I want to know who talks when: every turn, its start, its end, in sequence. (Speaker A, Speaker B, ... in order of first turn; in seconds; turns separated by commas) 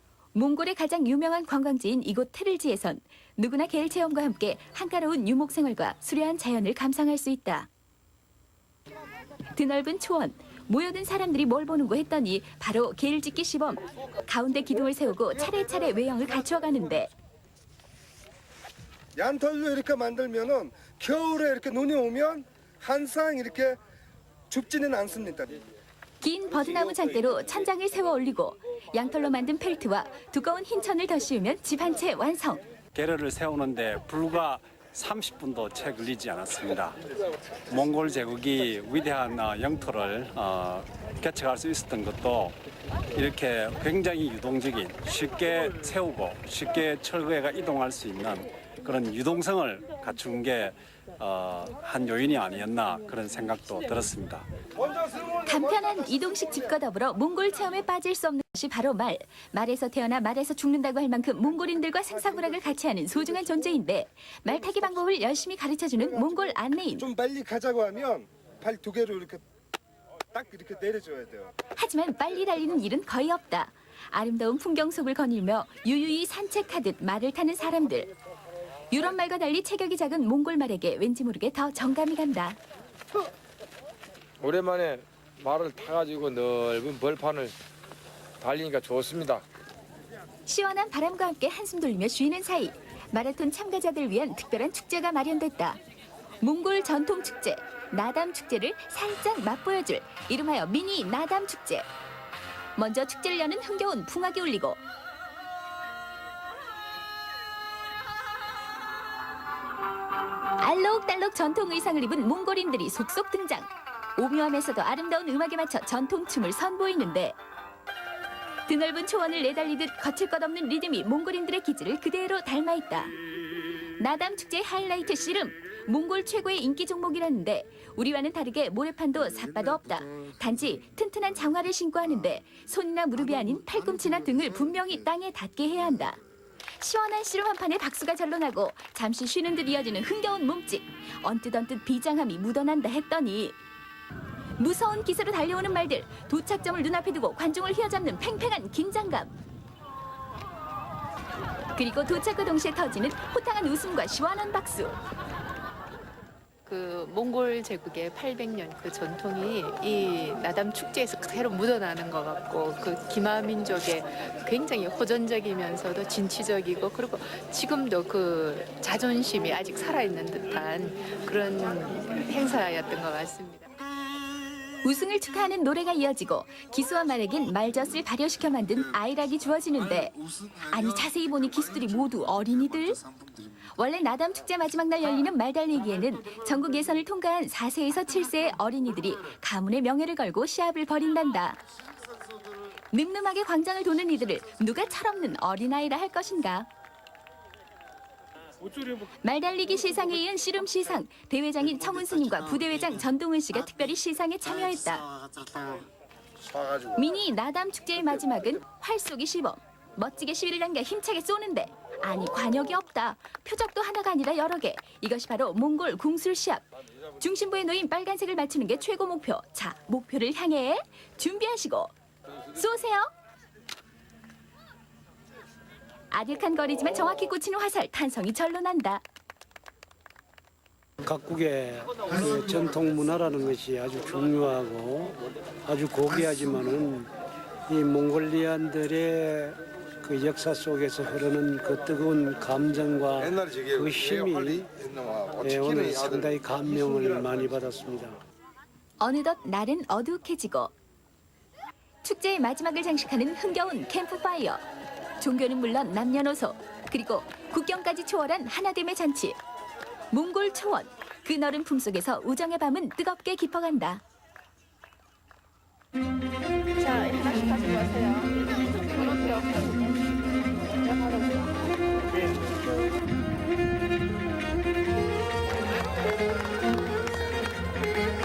Speaker A: 0.3-7.7, Speaker A: 9.5-17.1, Speaker B: 19.1-23.8, Speaker B: 24.5-25.6, Speaker A: 26.2-32.6, Speaker C: 32.9-37.0, Speaker C: 37.7-42.6, Speaker C: 43.1-54.5, Speaker A: 55.4-67.1, Speaker B: 67.0-69.4, Speaker B: 70.3-71.5, Speaker A: 71.8-78.1, Speaker A: 78.9-82.6, Speaker D: 84.4-87.5, Speaker D: 88.4-89.4, Speaker A: 90.5-95.8, Speaker A: 96.4-101.8, Speaker A: 102.8-104.8, Speaker A: 110.6-117.3, Speaker A: 118.7-123.2, Speaker A: 124.0-136.2, Speaker A: 136.8-143.6, Speaker A: 144.6-149.3, Speaker A: 151.8-155.0, Speaker E: 156.6-173.7, Speaker A: 174.8-183.0, Speaker A: 183.8-191.6, Speaker A: 192.9-196.7, Speaker A: 199.2-205.1, Speaker A: 206.9-216.6, Speaker A: 217.2-221.9, Speaker A: 222.5-223.1, Speaker A: 226.1-229.0, Speaker F: 231.0-237.1, Speaker F: 237.7-248.2, Speaker A: 249.0-250.7, Speaker A: 252.0-254.6, Speaker A: 255.2-259.4, Speaker A: 260.1-264.0, Speaker E: 266.8-268.3, Speaker E: 268.9-269.7, Speaker E: 270.9-271.2